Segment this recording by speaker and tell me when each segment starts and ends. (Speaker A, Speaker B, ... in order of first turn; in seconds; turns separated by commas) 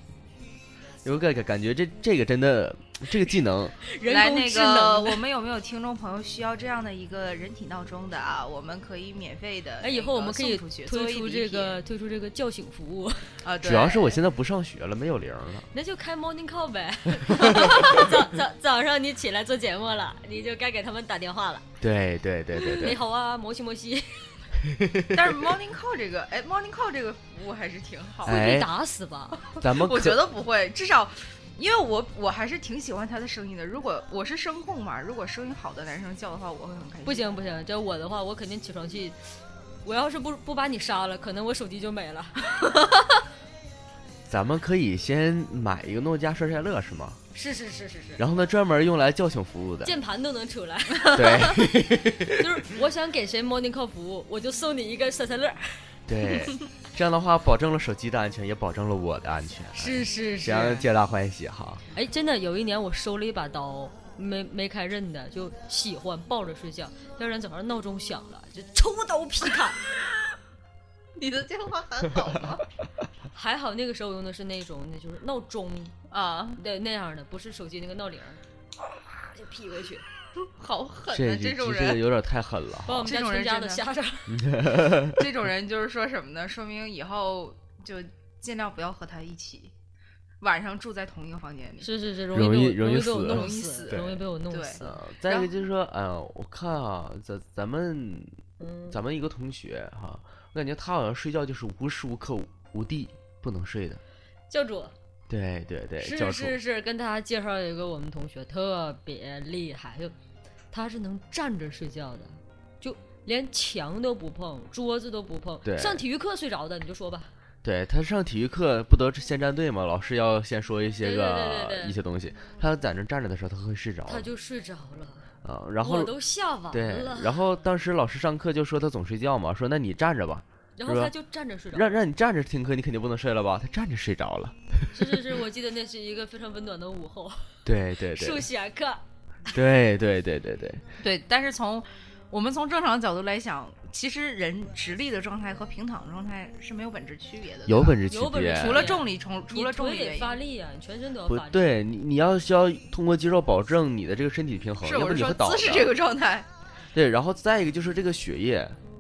Speaker A: 1.0-3.8, Speaker B: 3.8-5.2, Speaker C: 4.0-11.8, Speaker B: 9.8-13.3, Speaker C: 13.4-14.2, Speaker A: 13.6-15.7, Speaker B: 15.7-21.7, Speaker A: 17.4-17.9, Speaker A: 21.8-23.0, Speaker B: 22.6-24.3, Speaker A: 24.6-25.3, Speaker C: 25.1-28.4, Speaker A: 28.2-28.7, Speaker B: 28.2-29.4, Speaker C: 29.4-37.3, Speaker A: 29.6-30.2, Speaker B: 37.0-42.5, Speaker A: 44.3-47.2, Speaker B: 47.3-48.2, Speaker A: 48.2-49.9, Speaker B: 49.8-51.6, Speaker A: 51.1-52.6, Speaker B: 52.3-56.0, Speaker A: 56.1-61.8, Speaker B: 59.7-60.8, Speaker B: 61.9-69.8, Speaker C: 71.2-72.6, Speaker B: 73.3-75.9, Speaker C: 76.1-76.6, Speaker B: 76.6-78.4, Speaker B: 79.3-80.0, Speaker C: 80.4-82.0, Speaker A: 81.1-83.0, Speaker B: 82.8-84.5, Speaker C: 83.0-83.8, Speaker A: 84.3-85.2, Speaker C: 84.9-89.7, Speaker C: 90.4-91.9, Speaker B: 91.8-95.0, Speaker A: 92.3-94.2, Speaker C: 93.3-95.5, Speaker A: 94.8-98.4, Speaker B: 98.6-99.0, Speaker A: 98.9-104.0, Speaker B: 104.5-104.9, Speaker A: 105.3-106.6, Speaker B: 106.0-110.1, Speaker B: 110.7-117.3, Speaker A: 115.6-116.0, Speaker A: 117.6-124.2, Speaker B: 121.0-122.0, Speaker B: 124.1-125.3, Speaker A: 125.4-126.1, Speaker B: 125.8-127.4, Speaker A: 126.7-131.1, Speaker B: 130.8-132.0, Speaker A: 131.7-134.9, Speaker B: 134.9-139.0, Speaker A: 137.6-138.4, Speaker A: 139.5-140.8, Speaker C: 141.0-148.0, Speaker A: 147.7-148.9, Speaker B: 148.1-151.7, Speaker C: 148.5-150.3, Speaker A: 151.3-155.9, Speaker C: 154.8-156.5, Speaker A: 156.9-158.8